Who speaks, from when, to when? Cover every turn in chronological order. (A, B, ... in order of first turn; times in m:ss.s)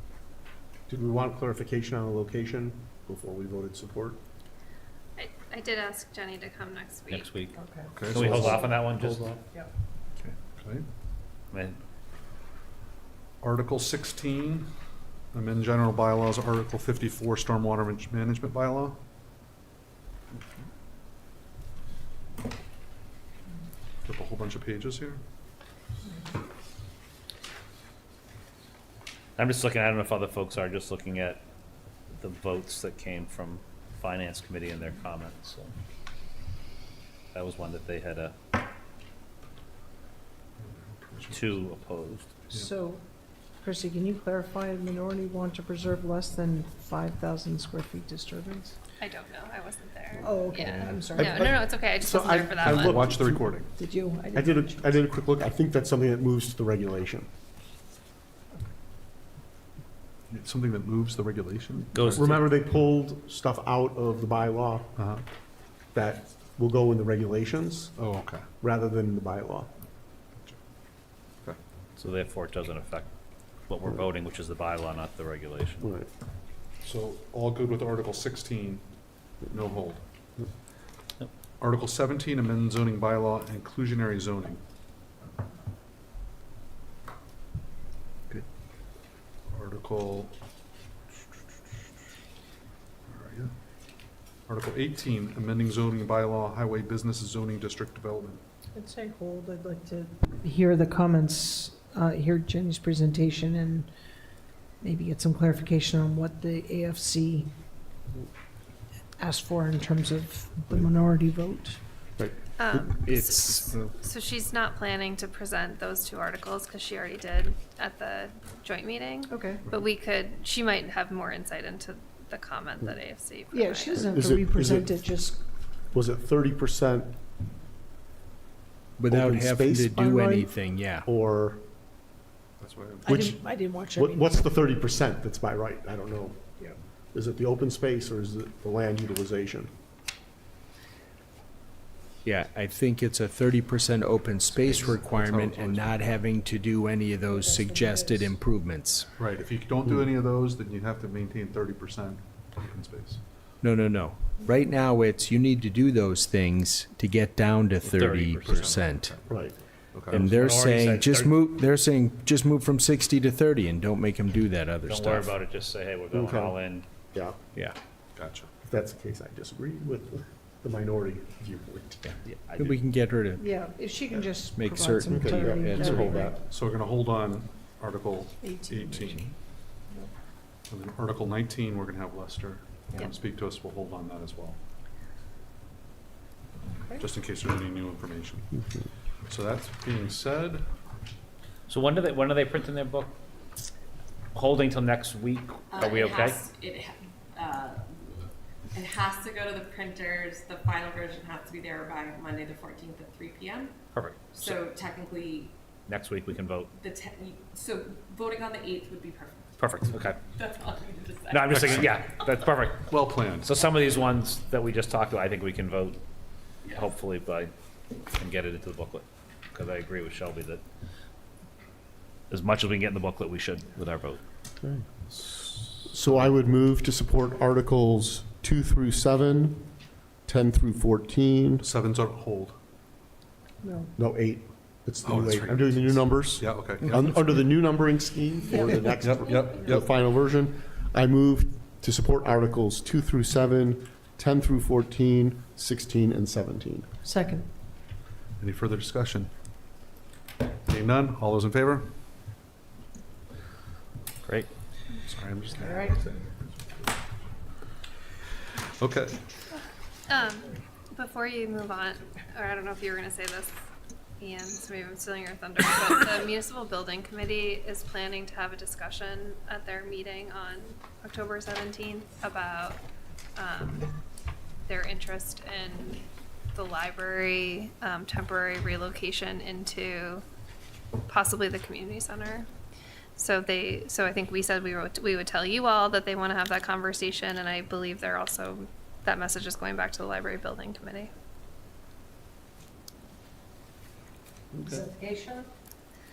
0:00.9-0:04.2 A
0:05.2-0:07.3 B
0:07.1-0:09.4 C
0:07.5-0:07.9 D
0:07.9-0:08.6 E
0:08.1-0:09.4 A
0:10.2-0:10.8 E
0:11.5-0:11.8 C
0:13.4-0:14.7 E
0:15.3-0:19.0 E
0:24.0-0:25.2 E
0:29.4-0:31.4 C
0:32.1-0:35.7 C
0:37.3-0:38.3 C
0:40.6-0:41.7 E
0:41.3-0:42.4 C
0:42.5-0:43.0 D
0:43.6-0:48.8 D
0:49.0-0:53.0 B
0:50.2-0:51.6 D
0:50.6-0:51.0 F
0:51.1-0:53.4 A
0:52.6-0:53.7 E
0:53.7-0:55.0 D
0:54.3-0:57.3 A
1:00.3-1:02.4 E
1:01.9-1:02.4 C
1:02.2-1:05.0 A
1:05.0-1:05.2 E
1:05.9-1:08.0 A
1:08.0-1:08.4 E
1:08.6-1:09.7 A
1:12.0-1:13.1 C
1:13.7-1:15.9 C
1:15.8-1:16.1 A
1:16.8-1:18.9 E
1:19.5-1:20.0 E
1:21.6-1:24.6 E
1:29.5-1:30.3 E
1:33.1-1:33.5 E
1:34.5-1:38.4 E
1:38.7-1:43.9 D
1:44.8-1:47.5 D
1:49.2-1:51.8 D
1:52.2-1:52.8 A
1:52.6-2:04.0 B
1:53.0-1:53.8 F
1:59.3-1:59.7 D
2:03.5-2:05.4 D
2:04.0-2:05.0 A
2:05.9-2:07.2 A
2:09.0-2:11.1 F
2:09.1-2:10.0 A
2:09.9-2:10.5 D
2:11.0-2:11.6 A
2:12.6-2:13.3 E
2:13.0-2:14.4 D
2:13.1-2:13.4 A
2:13.9-2:16.5 A
2:17.1-2:19.7 A
2:22.2-2:29.1 F
2:24.6-2:26.1 E
2:27.3-2:28.3 D
2:29.2-2:33.2 E
2:33.6-2:39.2 F
2:37.8-2:38.8 C
2:38.4-2:40.3 E
2:39.3-2:39.6 A
2:40.1-2:45.4 F
2:40.3-2:41.4 C
2:44.8-2:46.8 C
2:46.1-2:47.4 A
2:48.2-2:48.5 E
2:48.6-2:52.1 A
2:52.2-2:52.8 C
2:52.6-2:53.5 F
2:53.4-2:56.4 D
2:54.5-2:56.2 F
2:55.0-2:56.4 A
2:56.3-2:59.3 E
2:58.4-2:59.3 D
3:00.7-3:04.6 E
3:07.0-3:08.5 E
3:09.3-3:10.6 E
3:11.7-3:13.2 C
3:14.3-3:16.4 C
3:15.8-3:17.9 G
3:18.7-3:23.7 G
3:23.9-3:24.6 C
3:24.5-3:25.5 G
3:25.9-3:26.7 C
3:26.8-3:29.4 G
3:29.6-3:30.2 C
3:30.4-3:31.6 G
3:31.3-3:36.0 C
3:32.9-3:33.5 E
3:36.7-3:37.5 C
3:38.1-3:40.6 C
3:42.3-3:44.2 C
3:44.6-3:51.6 A
3:51.6-3:52.6 E
3:53.6-3:53.9 D
3:54.0-4:06.9 A
3:55.0-3:57.4 E
3:58.5-3:58.8 D
3:59.0-4:00.0 E
4:07.0-4:07.5 D
4:08.4-4:09.3 E
4:10.7-4:12.0 E
4:14.2-4:14.5 C
4:15.1-4:16.4 E
4:15.6-4:16.0 D
4:18.6-4:19.3 E
4:20.1-4:23.6 B
4:24.2-4:32.8 B
4:33.4-4:33.9 B
4:34.7-4:40.2 B
4:41.0-4:42.5 B
4:43.2-4:51.1 B
4:54.5-4:54.8 A
4:54.6-4:55.5 D